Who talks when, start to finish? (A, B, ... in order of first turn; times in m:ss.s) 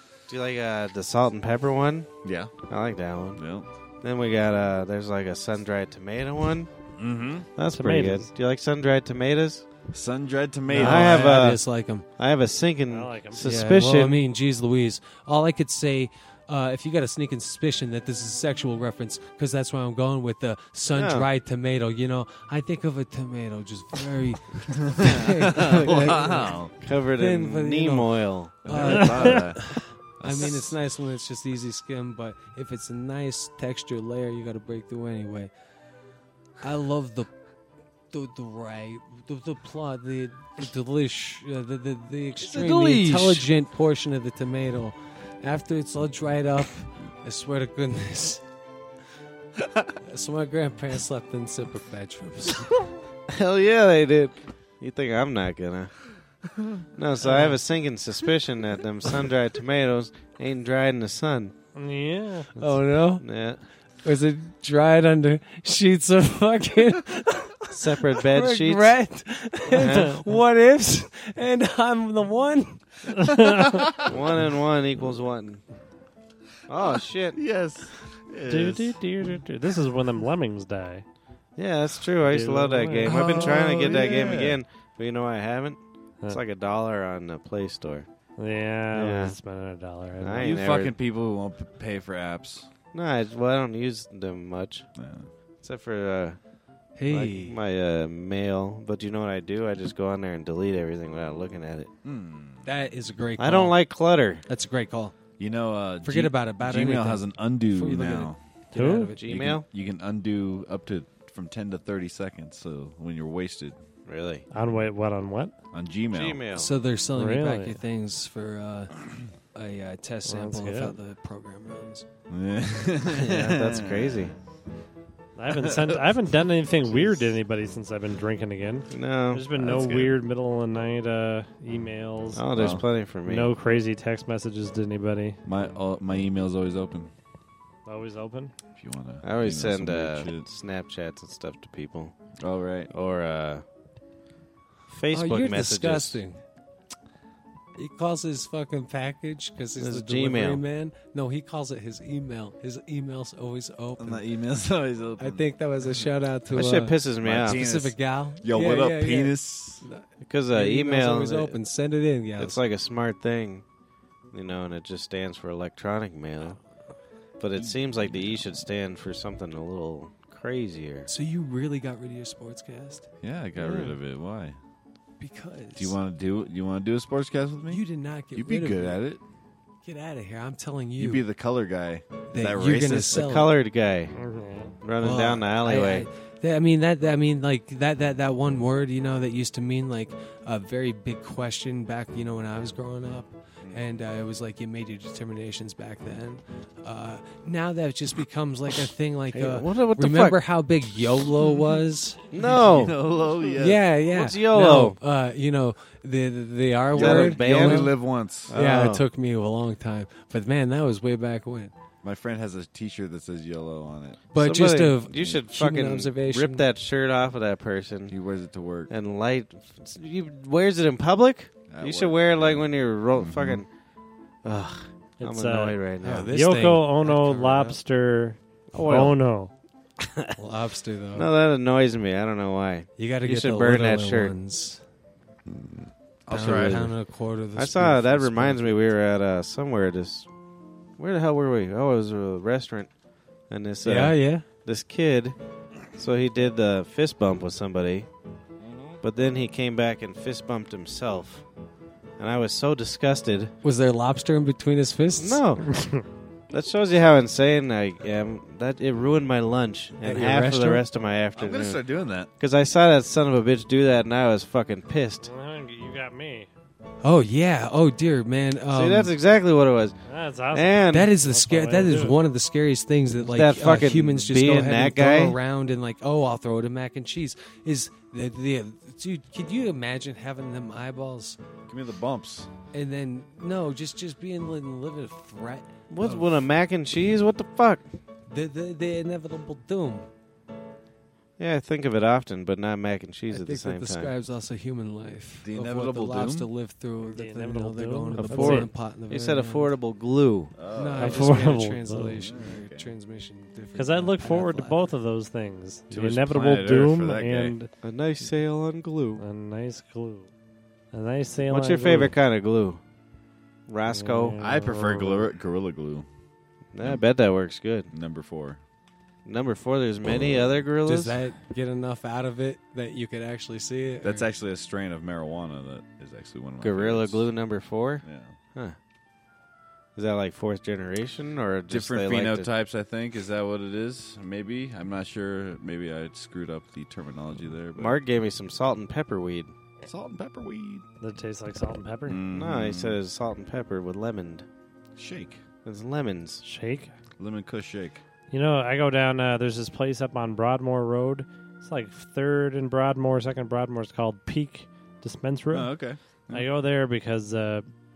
0:00.3-0:02.1 A
0:02.2-0:02.5 B
0:02.7-0:03.4 A
0:03.4-0:03.7 B
0:04.0-0:06.7 A
0:07.0-0:07.5 B
0:07.6-0:09.6 A
0:07.7-0:08.3 C
0:09.9-0:11.5 B
0:10.7-0:12.0 D
0:10.8-0:11.6 A
0:12.2-0:14.2 A
0:12.9-0:13.4 C
0:13.4-0:26.6 D
0:20.9-0:21.3 A
0:24.9-0:26.7 B
0:26.1-0:29.1 A
0:27.2-0:35.5 D
0:28.6-0:30.7 B
0:36.6-0:37.3 D
0:38.1-0:48.4 D
0:42.7-0:43.2 B
0:49.9-0:52.8 D
0:53.3-0:56.0 A
0:56.9-1:01.5 A
1:01.7-1:02.6 C
1:02.6-1:03.2 D
1:03.2-1:03.6 A
1:04.0-1:12.8 D
1:07.7-1:09.0 A
1:09.9-1:10.1 A
1:13.2-1:13.9 C
1:13.5-1:14.1 B
1:14.0-1:15.6 A
1:16.7-1:17.4 A
1:17.3-1:19.0 B
1:18.5-1:21.0 C
1:21.6-1:28.1 A
1:22.2-1:23.3 C
1:23.0-1:24.6 B
1:28.4-1:30.5 C
1:28.9-1:29.4 A
1:30.2-1:30.9 A
1:30.4-1:32.7 B
1:32.9-1:34.9 A
1:35.0-1:35.3 B
1:35.6-1:36.4 A
1:37.0-1:37.6 D
1:37.1-1:41.9 A
1:42.0-1:42.7 B
1:42.6-1:43.8 D
1:43.4-1:44.4 A
1:44.5-1:45.1 D
1:45.4-1:48.4 B
1:46.0-1:49.2 D
1:48.7-1:49.1 C
1:49.2-1:49.6 A
1:49.3-1:53.8 B
1:54.1-1:54.4 A
1:54.5-1:55.5 C
1:55.7-1:56.4 B
1:56.1-1:56.7 A
1:56.5-1:58.9 D
1:57.2-1:57.8 C
1:59.5-2:02.0 D
2:00.2-2:01.0 C
2:02.3-2:04.3 B
2:03.1-2:04.4 A
2:05.4-2:12.4 C
2:05.5-2:06.0 B
2:08.9-2:09.4 A
2:09.5-2:10.2 B
2:12.3-2:13.5 A
2:12.5-2:12.8 B
2:13.2-2:15.4 C
2:15.4-2:17.1 B
2:17.8-2:18.5 C
2:18.8-2:20.5 B
2:19.2-2:22.1 A
2:22.4-2:22.9 B
2:22.9-2:23.6 A
2:24.9-2:26.2 A
2:25.1-2:26.4 D
2:27.8-2:34.2 D
2:29.8-2:30.6 A
2:34.0-2:35.4 B
2:35.2-2:42.6 D
2:36.5-2:37.6 A
2:37.2-2:39.8 B
2:40.2-2:41.6 A
2:42.4-2:43.6 A
2:44.3-2:46.6 A
2:47.4-2:51.1 A
2:47.6-2:48.5 B
2:51.1-2:53.1 D
2:53.2-2:54.6 B
2:53.6-2:53.9 A
2:55.2-2:56.0 D
2:55.8-2:57.8 B
2:57.7-2:59.0 D
2:58.3-2:59.2 B
2:59.8-3:01.2 D
3:01.0-3:03.3 B
3:02.3-3:03.5 D
3:03.1-3:04.2 A
3:04.2-3:04.7 C
3:04.8-3:06.1 A
3:05.0-3:22.2 D
3:13.6-3:13.9 B
3:19.3-3:20.4 A
3:22.3-3:22.9 A
3:22.3-3:23.8 B
3:23.6-3:27.9 D
3:24.1-3:25.0 A
3:26.9-3:28.0 A
3:26.9-3:28.5 B
3:28.5-3:29.0 A
3:28.5-3:31.7 D
3:32.0-3:34.2 B
3:34.3-3:36.6 D
3:34.3-3:38.2 A
3:38.1-3:38.9 B
3:38.9-3:43.7 A
3:41.7-3:43.6 B
3:44.4-3:46.3 A
3:45.2-3:45.8 C
3:46.0-3:47.8 D
3:46.3-3:49.5 C
3:48.7-3:49.1 A
3:50.0-3:50.3 A
3:50.4-3:51.3 D
3:51.1-3:54.3 A
3:53.0-3:54.8 D
3:55.5-3:56.9 B
3:56.3-3:58.8 D
3:56.3-3:56.9 A
3:57.6-4:00.3 A
4:01.0-4:02.9 A
4:03.5-4:05.4 A
4:03.8-4:04.4 D
4:05.9-4:08.1 A
4:09.0-4:11.4 A
4:12.2-4:13.5 A
4:13.6-4:15.4 D
4:15.2-4:21.8 A
4:20.0-4:20.8 D
4:21.3-4:22.3 B
4:22.4-4:25.3 A
4:25.2-4:26.5 C
4:27.0-4:29.1 D
4:28.7-4:30.0 A
4:30.1-4:32.2 C
4:30.5-4:31.1 A
4:30.9-4:41.4 D
4:33.2-4:35.4 A
4:41.7-4:42.5 B
4:42.7-4:46.4 D
4:45.9-4:47.8 A
4:48.3-4:50.0 D
4:51.4-4:54.1 A
4:53.3-4:59.7 D
4:55.4-4:56.5 B
4:57.1-4:58.7 C
4:58.3-5:00.5 A
5:00.6-5:01.4 B
5:00.7-5:04.8 D
5:01.0-5:02.2 C
5:02.1-5:02.9 B
5:03.8-5:07.7 C
5:05.9-5:07.5 B
5:07.8-5:09.2 A
5:09.2-5:10.3 C
5:10.9-5:12.1 C
5:11.5-5:12.8 A
5:13.7-5:14.4 A
5:13.9-5:15.3 C
5:14.4-5:16.0 B
5:16.7-5:17.9 A
5:17.9-5:18.6 B
5:19.2-5:21.1 A
5:20.8-5:24.2 D
5:24.0-5:27.3 B
5:26.6-5:28.8 A
5:28.0-5:28.4 B
5:30.0-5:32.5 A
5:31.7-5:38.0 B
5:37.8-5:39.5 A
5:39.8-5:40.8 B
5:41.0-5:42.2 C
5:42.0-5:43.0 B
5:42.3-5:44.4 A
5:45.0-5:45.4 B
5:45.6-5:46.4 A
5:46.4-5:46.9 C
5:47.2-5:48.0 B
5:48.3-5:55.7 C
5:55.5-5:56.5 B
5:56.3-5:57.6 C